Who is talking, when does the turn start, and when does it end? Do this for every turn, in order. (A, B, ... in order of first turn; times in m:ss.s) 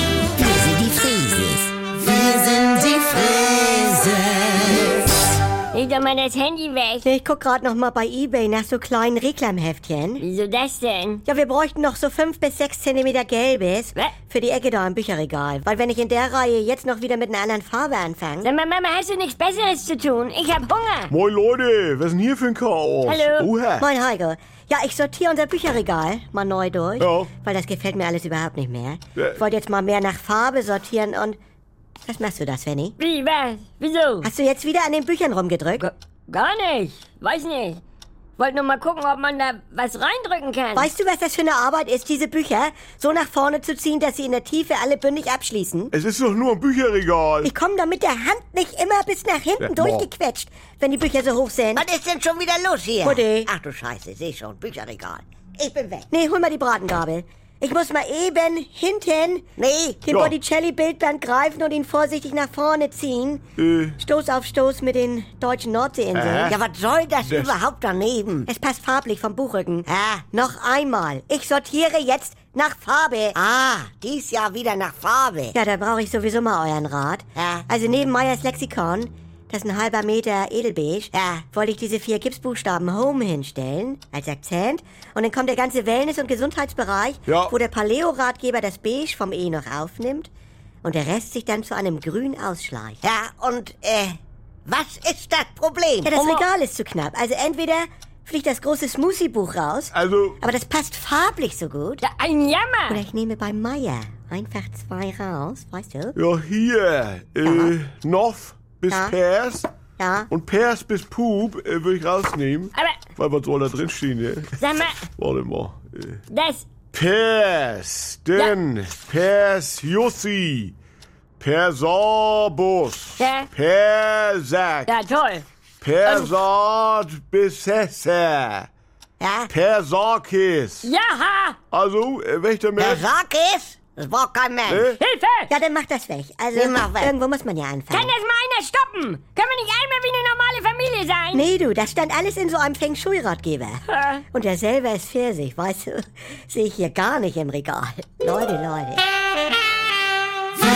0:00.4-0:04.8 A
0:05.7-0:07.1 B
0:07.0-0:10.2 C
0:10.2-0:11.2 B
0:11.2-0:18.5 C
0:18.4-0:21.1 B
0:21.1-0:23.8 D
0:23.0-0:23.5 B
0:23.8-0:31.4 C
0:27.0-0:27.3 D
0:32.0-0:33.0 C
0:33.0-0:34.3 B
0:34.2-0:35.9 C
0:35.8-0:37.8 B
0:38.4-0:40.9 B
0:40.8-0:45.9 C
0:45.9-0:47.5 D
0:47.4-0:51.8 C
0:49.6-0:50.1 D
0:51.8-0:56.1 A
0:53.0-0:53.5 C
0:56.1-0:59.5 C
0:59.6-1:00.0 A
1:00.1-1:00.3 D
1:00.1-1:03.4 C
1:03.6-1:04.0 D
1:04.0-1:06.5 C
1:06.1-1:08.5 A
1:06.2-1:06.6 D
1:07.2-1:07.5 D
1:08.5-1:13.4 C
1:09.9-1:10.3 A
1:13.4-1:15.5 A
1:15.5-1:30.3 C
1:17.4-1:17.6 A
1:21.1-1:21.4 A
1:27.3-1:27.5 D
1:30.8-1:33.0 C
1:33.0-1:36.1 A
1:36.0-1:42.0 C
1:36.2-1:36.4 B
1:39.9-1:40.4 D
1:42.0-1:43.0 B
1:42.9-1:46.2 C
1:46.2-1:49.7 D
1:47.4-1:47.7 C
1:48.9-1:49.2 C
1:50.0-1:50.3 C
1:50.3-1:54.6 D
1:54.6-1:55.0 B
1:55.1-1:56.2 D
1:56.3-1:56.7 B
1:56.9-2:00.8 D
2:01.4-2:04.9 D
2:03.2-2:03.5 B
2:04.9-2:05.4 B
2:05.8-2:08.7 D
2:09.2-2:09.5 A
2:09.5-2:10.9 D
2:10.8-2:11.6 B
2:11.7-2:13.0 D
2:12.8-2:14.9 A
2:14.7-2:15.0 D
2:15.0-2:15.5 B
2:15.5-2:18.1 C
2:16.5-2:17.1 A
2:17.9-2:21.4 B
2:21.3-2:29.1 C
2:23.9-2:24.2 B